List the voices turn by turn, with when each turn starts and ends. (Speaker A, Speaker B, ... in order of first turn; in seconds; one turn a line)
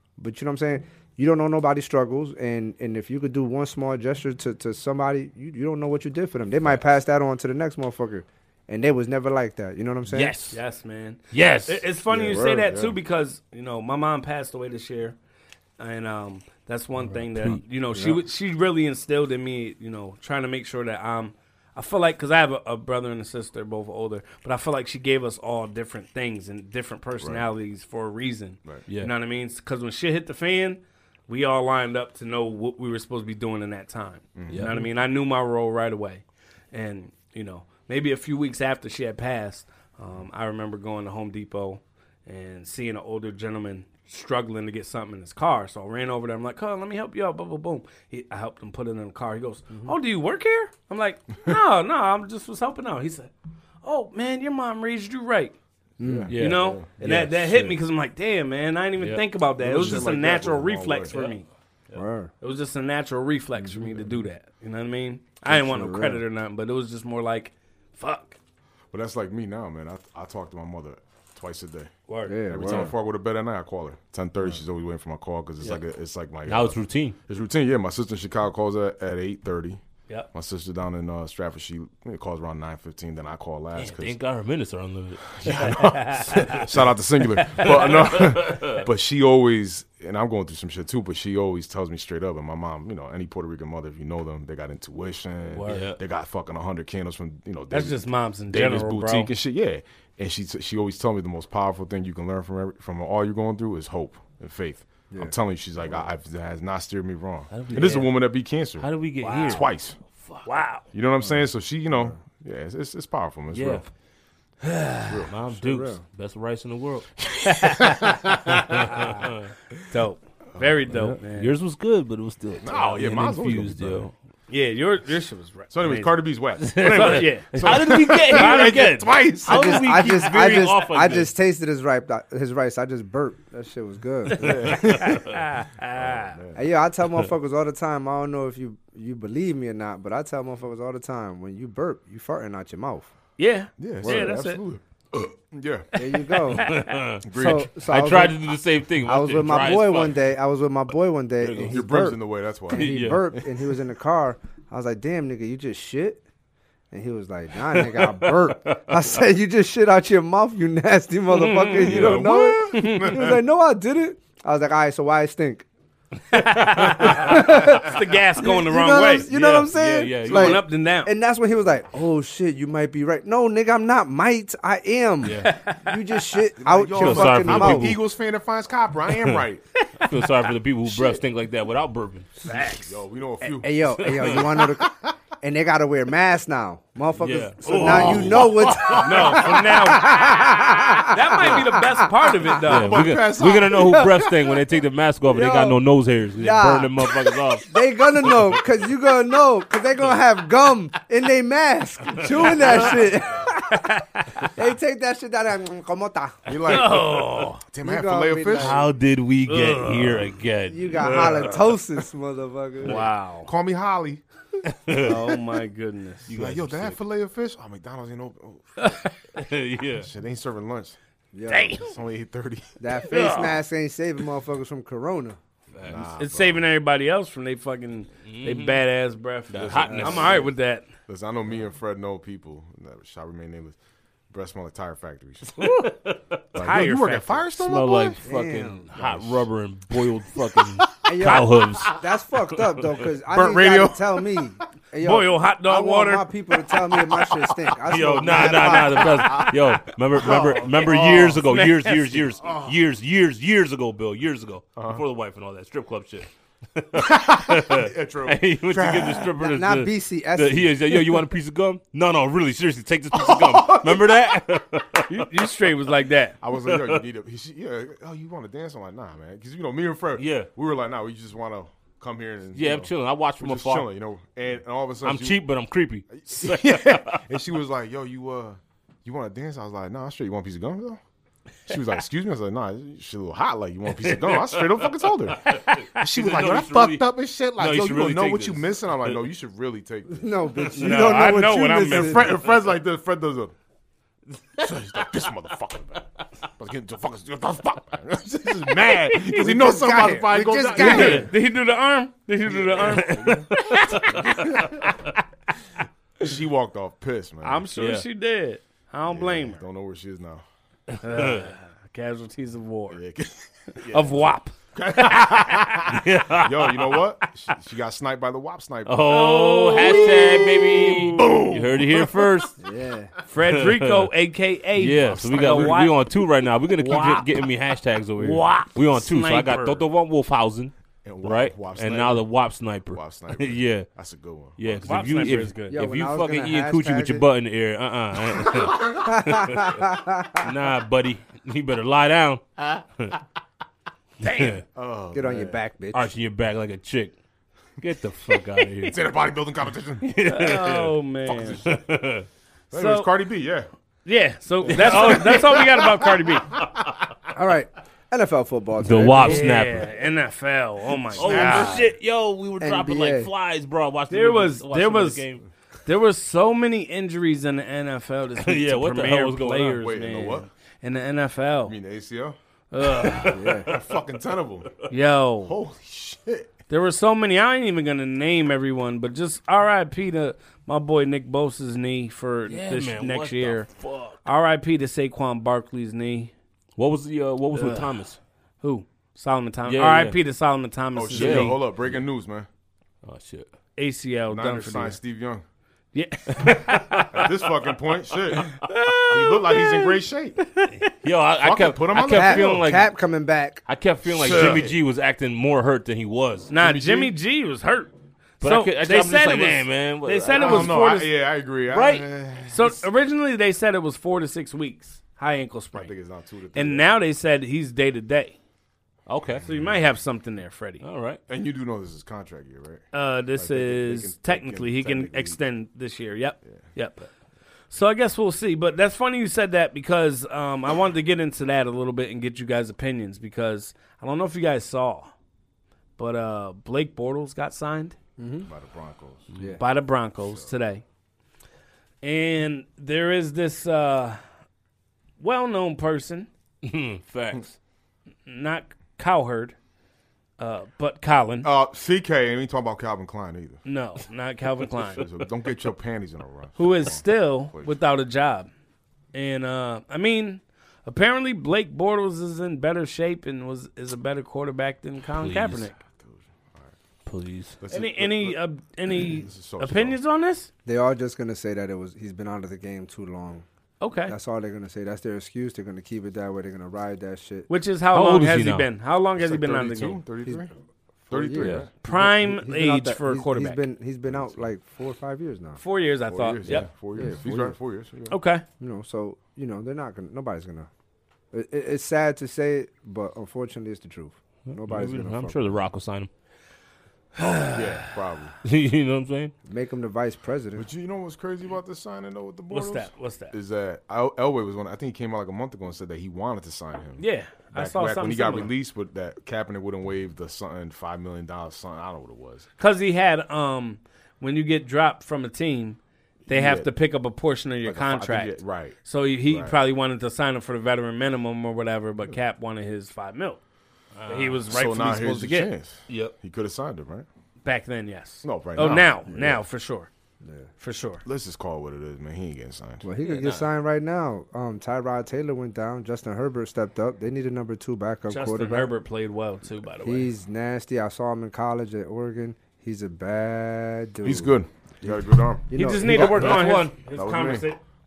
Speaker A: 0.2-10.4
Speaker B: 10.1-10.6
Speaker C: 10.5-15.2
Speaker B: 11.3-11.8
Speaker D: 12.1-13.0
Speaker A: 12.2-12.6
Speaker C: 15.8-53.3
Speaker A: 17.9-18.2
Speaker D: 34.4-34.7
Speaker B: 34.5-34.8
Speaker C: 53.8-55.5
Speaker A: 56.0-56.3
Speaker D: 56.0-56.9
Speaker B: 56.3-57.8
Speaker C: 56.3-61.5
Speaker D: 59.6-61.2
Speaker A: 61.9-62.3
Speaker C: 62.4-68.4
Speaker A: 63.6-64.0
Speaker A: 65.5-66.2
Speaker D: 68.9-71.9
Speaker C: 72.1-72.9
Speaker A: 72.3-72.9
Speaker D: 72.5-79.8
Speaker B: 76.5-77.2
Speaker D: 80.3-84.2
Speaker B: 83.8-85.8
Speaker D: 85.4-108.9
Speaker C: 85.7-86.6
Speaker B: 86.3-86.6
Speaker B: 87.4-88.8
Speaker C: 95.5-95.9
Speaker B: 95.7-96.0
Speaker C: 97.7-99.3
Speaker B: 107.5-108.1
Speaker B: 108.8-109.7
Speaker C: 109.2-109.7
Speaker D: 109.4-110.0
Speaker B: 110.2-110.5
Speaker C: 110.4-110.8
Speaker D: 110.9-113.8
Speaker A: 111.9-112.2
Speaker B: 113.5-113.9
Speaker C: 114.6-115.2
Speaker D: 115.1-115.3
Speaker B: 115.3-117.1
Speaker A: 115.6-116.0
Speaker D: 117.2-119.2
Speaker C: 117.5-118.2
Speaker B: 118.6-119.5
Speaker C: 118.8-119.3
Speaker C: 119.9-121.5
Speaker D: 120.5-120.9
Speaker B: 120.9-124.1
Speaker D: 122.6-124.1
Speaker C: 124.5-129.1
Speaker D: 125.7-129.9
Speaker B: 126.6-131.3
Speaker A: 129.5-134.8
Speaker D: 134.4-136.6
Speaker C: 134.4-136.4
Speaker A: 136.5-143.1
Speaker C: 143.4-144.6
Speaker D: 143.8-145.9
Speaker A: 144.0-144.4
Speaker A: 145.9-146.7
Speaker C: 146.0-147.0
Speaker B: 146.5-150.2
Speaker D: 147.2-147.7
Speaker A: 147.3-148.4
Speaker A: 149.0-152.2
Speaker D: 151.6-153.4
Speaker A: 152.7-156.2
Speaker B: 152.7-153.2
Speaker A: 156.9-165.7
Speaker B: 157.7-158.8
Speaker C: 161.3-162.1
Speaker B: 161.8-162.4
Speaker D: 161.9-163.4
Speaker C: 162.7-163.3
Speaker C: 166.3-169.7
Speaker A: 166.7-178.0
Speaker B: 169.7-170.6
Speaker C: 170.2-171.1
Speaker B: 175.2-175.5
Speaker C: 175.4-176.1
Speaker D: 176.6-179.6
Speaker B: 177.0-178.0
Speaker B: 179.2-179.4
Speaker C: 179.8-180.3
Speaker B: 180.0-182.3
Speaker C: 182.4-182.9
Speaker D: 182.7-184.6
Speaker A: 183.4-192.7
Speaker B: 184.0-184.8
Speaker B: 187.2-189.4
Speaker D: 187.7-189.4
Speaker C: 188.9-190.4
Speaker C: 191.0-193.0
Speaker B: 192.6-198.6
Speaker D: 192.7-194.1
Speaker A: 193.7-194.3
Speaker A: 195.3-195.8
Speaker A: 196.4-206.5
Speaker C: 202.2-204.5
Speaker B: 202.5-203.1
Speaker D: 206.5-208.9
Speaker C: 206.7-207.6
Speaker A: 207.8-208.9
Speaker B: 208.6-211.6
Speaker C: 209.5-210.4
Speaker A: 210.7-213.0
Speaker C: 211.0-211.7
Speaker C: 212.8-213.5
Speaker D: 213.4-214.2
Speaker B: 214.7-215.2
Speaker C: 215.0-216.3
Speaker B: 216.3-217.0
Speaker D: 216.3-219.0
Speaker C: 218.8-219.1
Speaker B: 219.3-220.1
Speaker D: 220.0-221.0
Speaker A: 221.3-221.8
Speaker C: 221.5-221.9
Speaker D: 221.7-222.7
Speaker A: 222.8-225.4
Speaker C: 223.0-223.6
Speaker B: 225.7-226.1
Speaker D: 225.8-226.7
Speaker C: 226.2-230.9
Speaker B: 228.3-228.8
Speaker B: 229.5-230.4
Speaker D: 229.5-230.5
Speaker A: 229.8-230.4
Speaker D: 231.1-233.8
Speaker D: 234.3-235.7
Speaker C: 235.6-235.9
Speaker B: 235.6-236.4
Speaker C: 236.5-237.5
Speaker D: 236.5-238.2
Speaker B: 237.6-242.0
Speaker A: 238.2-239.2
Speaker D: 239.0-239.3
Speaker D: 240.8-241.1
Speaker A: 241.0-249.5
Speaker B: 242.7-243.0
Speaker D: 243.3-244.4
Speaker C: 245.0-246.3
Speaker B: 247.8-265.2
Speaker D: 248.5-249.6
Speaker D: 250.2-251.4
Speaker C: 250.2-252.4
Speaker D: 252.4-252.7
Speaker D: 254.8-255.0
Speaker D: 257.0-259.1
Speaker A: 259.1-261.0
Speaker D: 263.1-264.1
Speaker C: 265.1-266.4
Speaker D: 266.4-275.4
Speaker B: 266.6-267.0
Speaker B: 270.2-270.5
Speaker B: 272.6-273.9
Speaker B: 275.0-277.2
Speaker D: 276.1-281.0
Speaker D: 281.7-290.3
Speaker B: 283.9-289.2
Speaker A: 290.1-292.3
Speaker C: 290.7-292.3
Speaker D: 291.9-293.5
Speaker D: 294.6-301.3
Speaker C: 299.1-299.5
Speaker A: 299.3-301.3
Speaker C: 300.7-304.6
Speaker B: 300.8-301.2
Speaker D: 302.5-305.0
Speaker B: 302.8-304.9
Speaker D: 306.2-307.7
Speaker C: 307.4-309.6
Speaker B: 307.8-308.0
Speaker D: 309.1-310.4
Speaker B: 311.0-311.5
Speaker C: 311.0-313.0
Speaker D: 312.9-314.2
Speaker C: 313.9-315.7
Speaker D: 314.7-319.1
Speaker B: 315.9-317.0
Speaker B: 318.9-322.6
Speaker C: 319.1-322.0
Speaker A: 322.6-323.1
Speaker C: 323.3-326.1
Speaker B: 323.4-324.1
Speaker B: 324.8-333.9
Speaker D: 325.0-325.9
Speaker C: 326.8-327.3
Speaker C: 328.2-329.9
Speaker D: 331.0-332.3
Speaker D: 332.9-335.4
Speaker B: 334.6-339.8
Speaker C: 334.8-335.8
Speaker A: 335.7-337.2
Speaker D: 338.5-339.0
Speaker A: 339.0-340.5
Speaker B: 340.4-343.2
Speaker C: 344.2-344.6
Speaker B: 344.2-344.6
Speaker D: 344.8-345.6
Speaker A: 345.1-346.1
Speaker B: 345.9-347.1
Speaker B: 347.8-349.1
Speaker D: 348.8-350.1
Speaker B: 350.0-350.9
Speaker C: 350.2-351.6
Speaker D: 351.3-351.8
Speaker B: 351.6-352.3
Speaker D: 352.7-353.7
Speaker C: 352.7-353.1
Speaker C: 354.1-356.6
Speaker D: 354.7-356.9
Speaker B: 354.7-355.7
Speaker A: 357.3-359.5
Speaker B: 358.8-359.9
Speaker C: 359.2-361.9
Speaker B: 361.1-365.4
Speaker D: 361.1-361.8
Speaker A: 362.6-363.3
Speaker C: 364.1-365.2
Speaker C: 365.9-371.8
Speaker B: 368.4-369.8
Speaker D: 369.8-370.5
Speaker D: 371.6-372.4
Speaker C: 372.7-373.4
Speaker B: 372.8-373.8
Speaker A: 373.3-373.7
Speaker D: 373.6-374.7
Speaker C: 374.9-375.5
Speaker D: 375.4-376.5
Speaker C: 376.7-383.7
Speaker B: 382.5-384.2
Speaker C: 384.2-386.3
Speaker B: 386.8-388.2
Speaker C: 387.5-387.9
Speaker C: 388.6-391.6
Speaker B: 389.7-390.2
Speaker D: 390.9-392.5
Speaker B: 391.1-392.0
Speaker B: 393.0-393.5
Speaker C: 393.8-395.0
Speaker D: 394.3-395.4
Speaker C: 395.9-397.2
Speaker B: 396.4-397.2
Speaker D: 397.1-400.4
Speaker C: 398.6-399.9
Speaker B: 400.6-402.9
Speaker D: 401.4-402.6
Speaker A: 402.0-403.6
Speaker B: 403.7-406.5
Speaker D: 404.1-404.8
Speaker C: 404.2-404.6
Speaker C: 406.5-411.1
Speaker D: 406.6-407.1
Speaker B: 408.4-410.8
Speaker D: 410.3-412.8
Speaker B: 411.7-412.1
Speaker C: 412.5-415.9
Speaker D: 415.7-416.9
Speaker C: 416.5-418.4
Speaker B: 419.1-419.4
Speaker D: 419.4-419.8
Speaker C: 419.4-420.8
Speaker B: 420.8-421.2
Speaker D: 421.3-425.4
Speaker C: 422.9-427.1
Speaker C: 427.7-435.1
Speaker C: 436.0-438.0
Speaker A: 438.2-438.5
Speaker D: 438.5-439.3
Speaker A: 439.4-439.6
Speaker C: 439.6-440.8
Speaker D: 440.2-440.5
Speaker C: 442.0-444.2
Speaker C: 445.2-446.3
Speaker B: 446.6-447.6
Speaker C: 448.3-449.6
Speaker C: 450.4-451.5
Speaker D: 451.4-453.6
Speaker C: 453.6-455.1
Speaker D: 454.9-457.8
Speaker C: 456.6-458.5
Speaker C: 459.1-465.8
Speaker B: 465.1-465.7
Speaker D: 466.0-466.7
Speaker B: 467.1-467.6
Speaker D: 467.6-468.4
Speaker C: 467.7-470.5
Speaker D: 468.9-470.0
Speaker A: 470.7-473.4
Speaker C: 473.8-474.1
Speaker A: 474.1-477.5
Speaker C: 477.5-480.0
Speaker B: 477.9-478.7
Speaker D: 479.2-480.5
Speaker A: 481.1-485.6
Speaker D: 481.1-481.7
Speaker B: 481.4-481.7
Speaker C: 481.8-483.6
Speaker D: 484.1-484.4
Speaker C: 485.6-486.7
Speaker D: 486.1-488.2
Speaker A: 486.5-487.6
Speaker C: 488.1-488.4
Speaker A: 488.6-490.7
Speaker A: 491.3-495.4
Speaker B: 494.5-496.1
Speaker C: 497.2-497.6
Speaker D: 497.5-498.4
Speaker B: 498.4-499.3
Speaker A: 499.5-500.7
Speaker D: 500.6-512.5
Speaker C: 502.5-503.3
Speaker C: 507.0-508.5
Speaker C: 512.6-523.4
Speaker D: 516.3-516.7
Speaker D: 517.6-518.8
Speaker D: 519.3-519.5
Speaker B: 524.0-524.4
Speaker C: 524.1-525.5
Speaker D: 524.5-527.1
Speaker B: 525.9-526.1
Speaker C: 527.4-529.9
Speaker D: 528.2-529.4
Speaker A: 530.2-530.5
Speaker C: 530.6-531.0
Speaker D: 531.0-532.9
Speaker A: 532.8-538.7
Speaker B: 533.0-533.5
Speaker C: 538.1-540.1
Speaker A: 539.8-546.4
Speaker D: 544.0-547.5
Speaker C: 545.5-547.6
Speaker B: 545.9-547.4